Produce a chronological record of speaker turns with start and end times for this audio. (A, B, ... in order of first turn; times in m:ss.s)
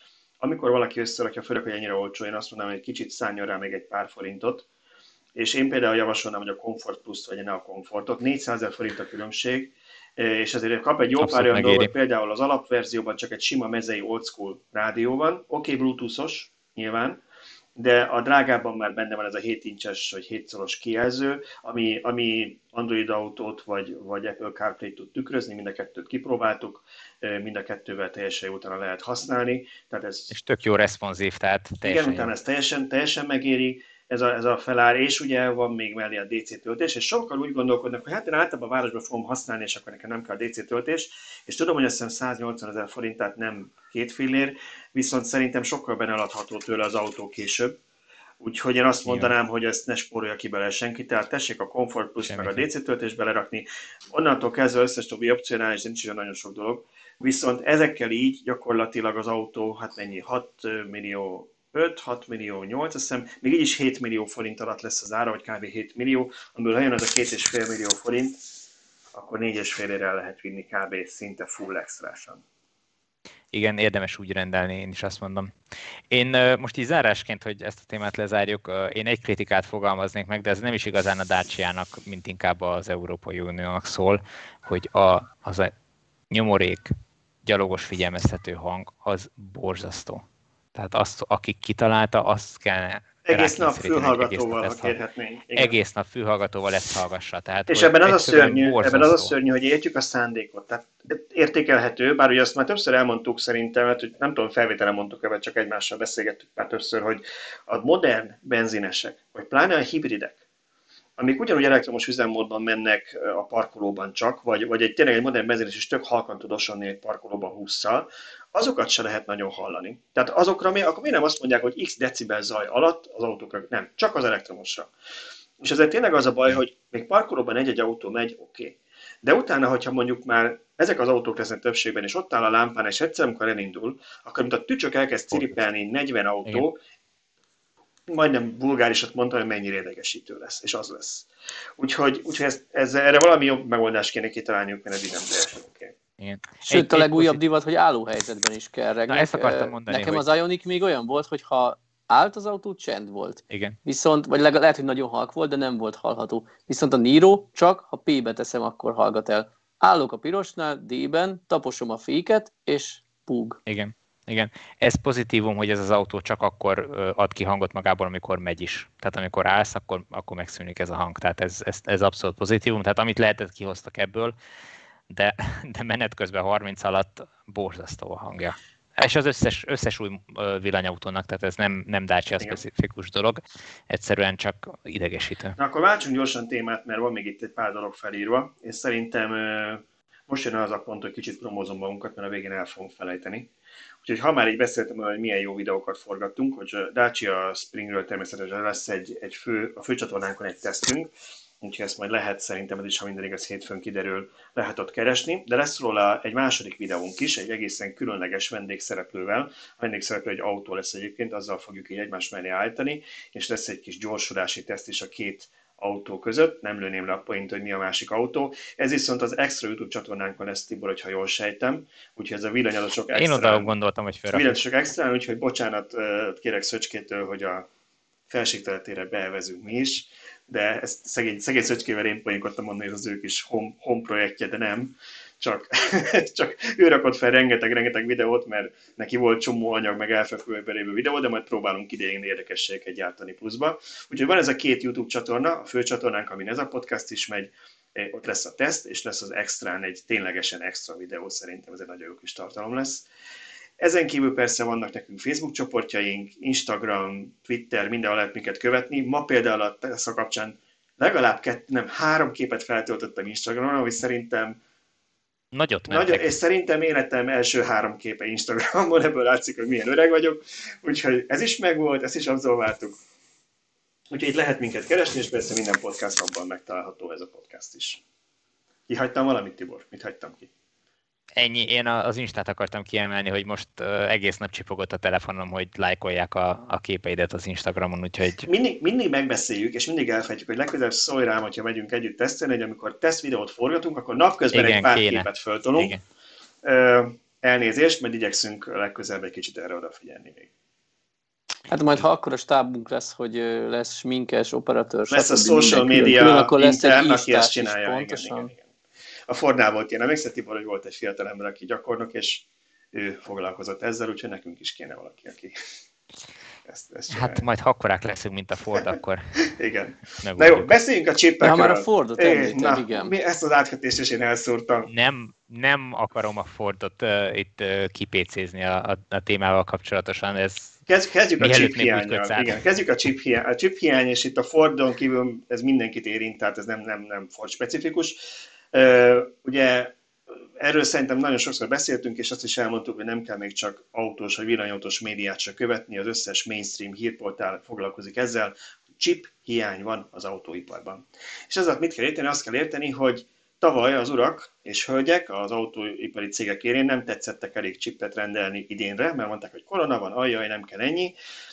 0:00.4-0:04.7 A
0:05.3-0:17.2 A
0:11.2-0:11.9 B
0:17.8-0:30.3 A
0:30.3-0:32.3 B
0:31.8-0:47.8 A
0:48.4-1:08.5 A
0:49.1-0:49.3 B
0:52.2-0:52.6 B
1:09.1-1:12.4 A
1:13.5-1:15.5 B
1:16.1-1:25.7 B
1:26.3-1:26.9 B
1:27.4-1:30.2 B
1:30.7-1:35.0 B
1:33.3-1:35.8 A
1:35.5-1:39.3 B
1:37.7-1:50.4 A
1:51.2-2:04.9 A
2:05.6-2:16.8 A
2:18.1-2:25.9 A
2:26.2-2:27.4 B
2:26.7-2:43.6 C
2:29.1-2:30.2 B
2:33.5-2:33.8 B
2:43.7-2:54.3 B
2:55.1-3:05.6 B
3:05.6-3:13.5 A
3:14.0-3:21.1 A
3:21.6-3:43.7 A
3:43.1-3:44.6 B
3:44.3-3:47.7 A
3:48.3-4:13.1 A
4:13.8-4:24.6 A
4:25.5-4:26.3 B
4:25.9-4:33.0 A
4:34.1-4:38.0 A
4:38.9-4:40.5 A
4:41.4-4:48.5 B
4:48.4-4:55.9 A
4:54.5-4:56.0 B
4:56.6-5:00.5 A
5:01.7-5:08.5 C
5:05.1-5:08.7 A
5:09.3-5:15.5 A
5:16.6-5:17.4 A
5:17.1-5:19.4 B
5:19.4-5:24.9 A
5:20.2-5:20.7 B
5:21.4-5:23.1 C
5:24.9-5:30.8 B
5:30.9-5:39.9 A
5:31.4-5:32.6 B
5:40.6-6:01.1 A